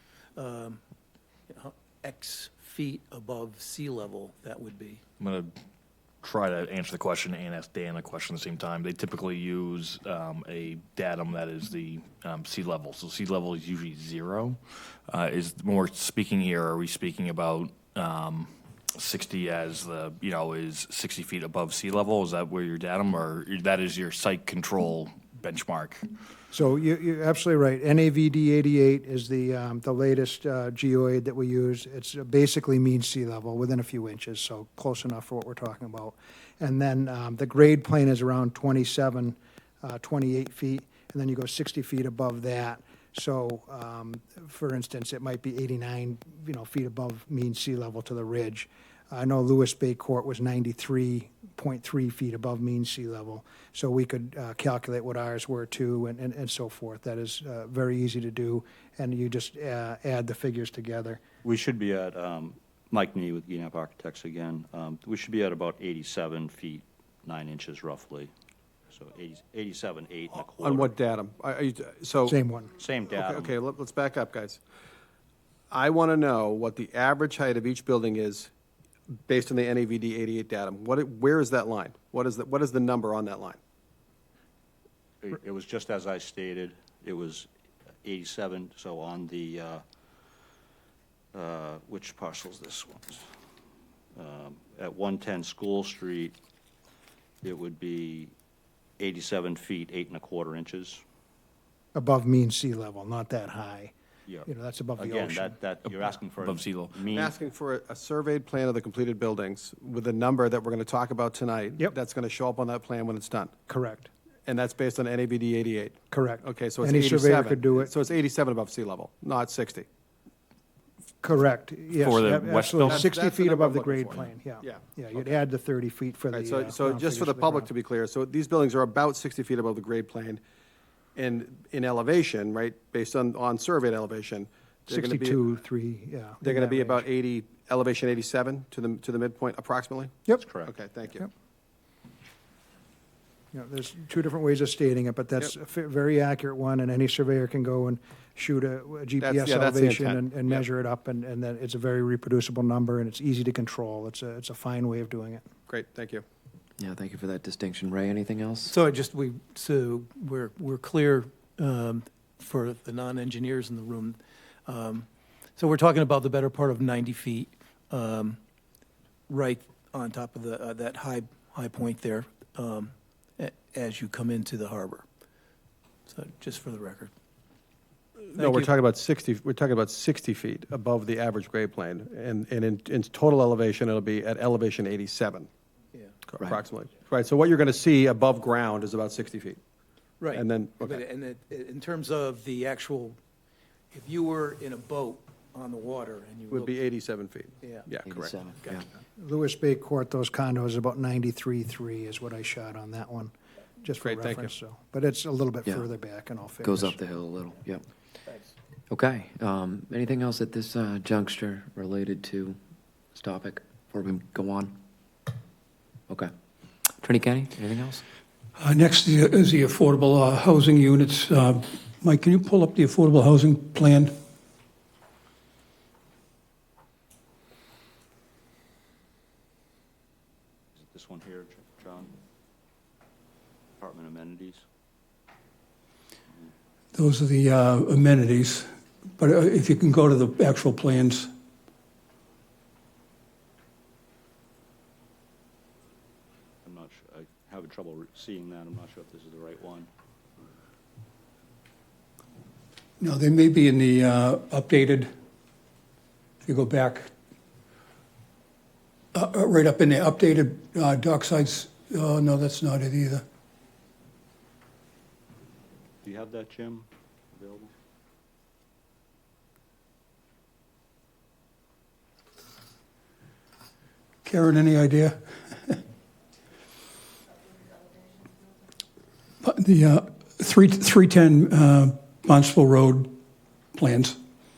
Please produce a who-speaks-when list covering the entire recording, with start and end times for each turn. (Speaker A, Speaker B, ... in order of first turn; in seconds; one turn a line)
Speaker A: 0.4-0.8
Speaker A: 1.5-5.0
Speaker B: 5.2-5.5
Speaker B: 6.2-26.0
Speaker C: 26.5-61.2
Speaker D: 61.4-68.3
Speaker D: 68.9-70.9
Speaker E: 70.6-72.4
Speaker C: 72.2-72.7
Speaker D: 72.8-73.5
Speaker E: 73.1-74.6
Speaker E: 75.7-78.5
Speaker E: 79.3-83.6
Speaker D: 85.2-87.5
Speaker D: 88.0-89.8
Speaker D: 91.3-93.2
Speaker D: 94.2-96.3
Speaker D: 97.4-98.3
Speaker D: 99.0-101.0
Speaker C: 101.9-103.9
Speaker D: 104.3-107.3
Speaker C: 104.5-105.6
Speaker B: 106.4-107.1
Speaker E: 107.1-113.6
Speaker C: 113.7-114.1
Speaker E: 114.5-119.9
Speaker C: 116.1-117.9
Speaker C: 121.2-127.7
Speaker B: 122.0-123.1
Speaker E: 122.8-125.3
Speaker E: 126.3-130.4
Speaker E: 131.2-135.4
Speaker C: 134.9-137.1
Speaker E: 136.4-141.3
Speaker C: 140.3-140.6
Speaker D: 140.4-140.7
Speaker C: 143.5-155.5
Speaker E: 149.2-150.7
Speaker E: 155.7-156.2
Speaker F: 156.8-158.7
Speaker A: 158.7-168.4
Speaker A: 169.3-175.1
Speaker A: 176.1-177.1
Speaker E: 178.3-185.5
Speaker A: 178.4-178.7
Speaker E: 186.3-189.6
Speaker A: 190.2-193.2
Speaker E: 190.3-191.0
Speaker A: 193.9-196.8
Speaker E: 196.5-198.3
Speaker A: 197.6-197.9
Speaker F: 198.0-198.9
Speaker C: 199.2-207.0
Speaker E: 204.0-204.5
Speaker F: 206.6-207.8
Speaker F: 208.9-212.6
Speaker F: 213.1-214.8
Speaker F: 217.0-218.0
Speaker G: 218.6-224.2
Speaker D: 230.8-232.1
Speaker D: 233.8-234.6
Speaker G: 236.9-241.3
Speaker D: 246.6-249.9
Speaker G: 253.0-255.1
Speaker G: 256.4-257.1
Speaker G: 259.1-263.2
Speaker D: 266.0-267.7
Speaker G: 274.2-275.8
Speaker G: 279.4-283.2
Speaker G: 283.7-284.2